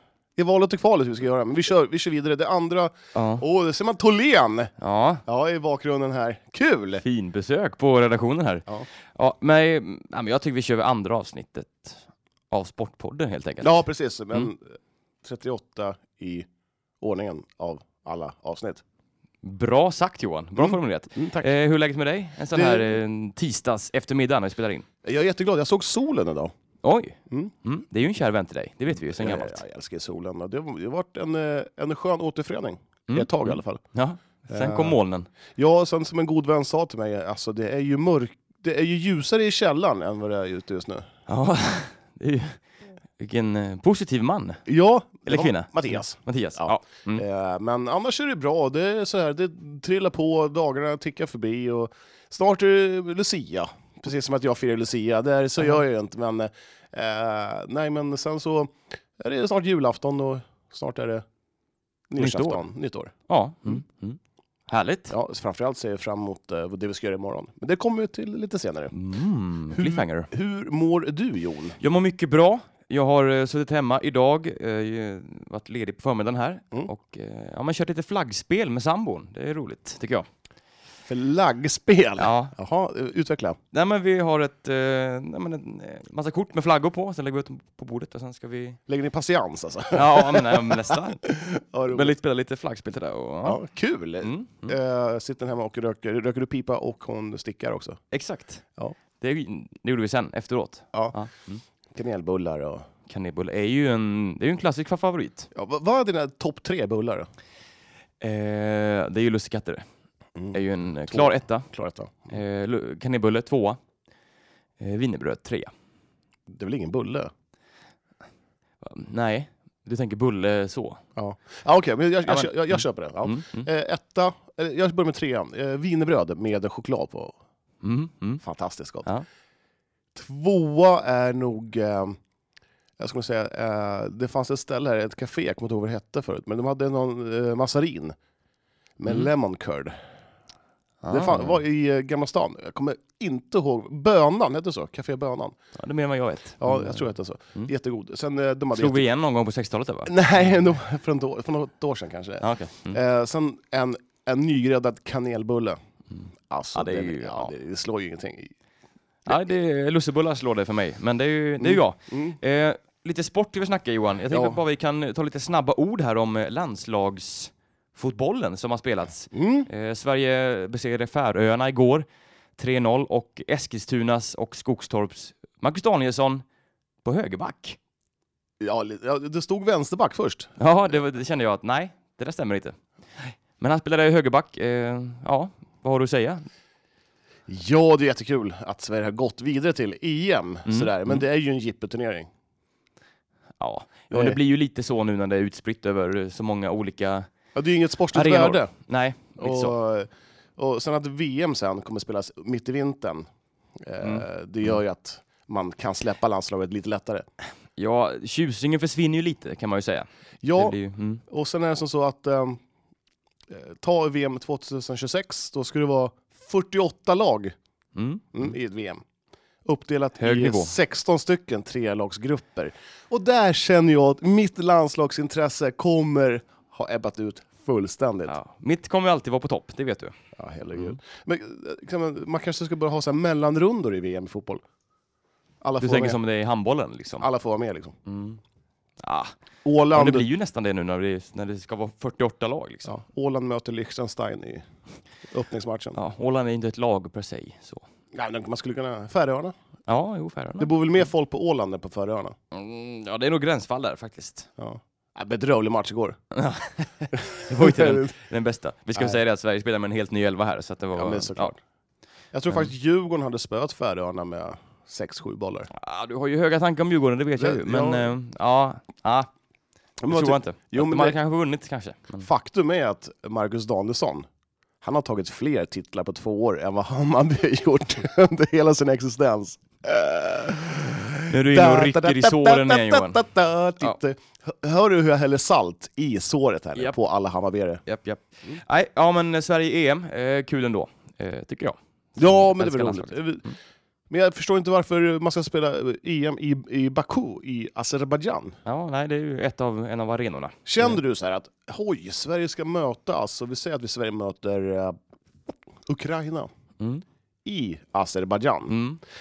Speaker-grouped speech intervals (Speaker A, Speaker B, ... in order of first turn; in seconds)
Speaker A: 0.4-4.7, 5.3-7.0, 13.6-16.5, 17.0-18.8, 20.6-21.5, 22.5-23.0, 25.0-26.5, 28.9-33.8, 34.5-35.0, 35.6-41.1, 44.7-61.2, 62.1-63.1, 65.1-68.9, 69.7-71.8, 81.1-83.6, 88.9-92.1, 93.4-98.0, 101.9-102.9, 105.5-107.3, 110.4-112.3, 116.5-117.3, 121.2-127.4, 128.4-129.1, 130.1-132.2, 133.0-138.2, 139.0-140.0, 141.1-145.6, 146.6-149.1, 150.1-155.8, 156.5-158.5, 161.6-162.4, 164.3-164.6, 169.3-169.7, 178.6-180.5, 187.5-192.3, 194.1-194.4, 197.6-198.7, 199.4-207.3, 210.4-212.6, 213.5-217.6, 218.3-219.0, 219.7-228.4, 230.4-234.6, 235.6-236.2, 237.2-237.9, 239.7-240.3, 242.9-244.6, 245.3-246.0, 248.1-249.6, 250.6-252.3, 254.6-256.2, 257.1-258.1, 260.9-261.6, 262.3-265.7, 267.4-268.1, 270.0-271.2, 272.2-274.3, 274.8-287.8, 292.2-293.5, 294.1-298.6, 300.7-305.0, 305.9-306.5, 307.4-308.8
Speaker B: 3.1-3.4, 4.8-5.2, 7.0-13.8, 19.4-24.9, 26.8-29.6, 33.1-35.3, 41.3-42.6, 43.2-44.6, 45.3-47.2, 62.2-62.6, 63.3-65.2, 68.9-70.3, 71.8-80.3, 82.2-82.5, 83.7-88.8, 89.9-91.3, 91.9-93.6, 94.2-94.8, 98.1-98.6, 99.2-101.6, 103.1-105.5, 108.2-109.8, 110.5-111.7, 112.3-113.8, 114.8-115.7, 118.8-121.0, 122.2-123.7, 127.8-128.4, 141.0-141.6, 145.8-147.7, 148.7-150.1, 152.4-153.0, 156.1-157.5, 159.2-172.1, 172.6-176.4, 177.0-177.8, 180.6-186.5, 190.7-191.2, 193.6-197.3, 198.1-199.8, 207.8-211.2, 217.9-218.5, 220.2-220.8, 228.3-230.2, 235.8-237.3, 238.1-238.4, 239.0-239.3, 239.9-242.9, 246.0-247.9, 249.9-250.7, 252.5-254.5, 256.3-261.5, 265.7-269.3, 270.1-272.3, 281.3-283.2, 287.9-293.5, 298.6-301.0, 306.8-307.0, 308.7-309.0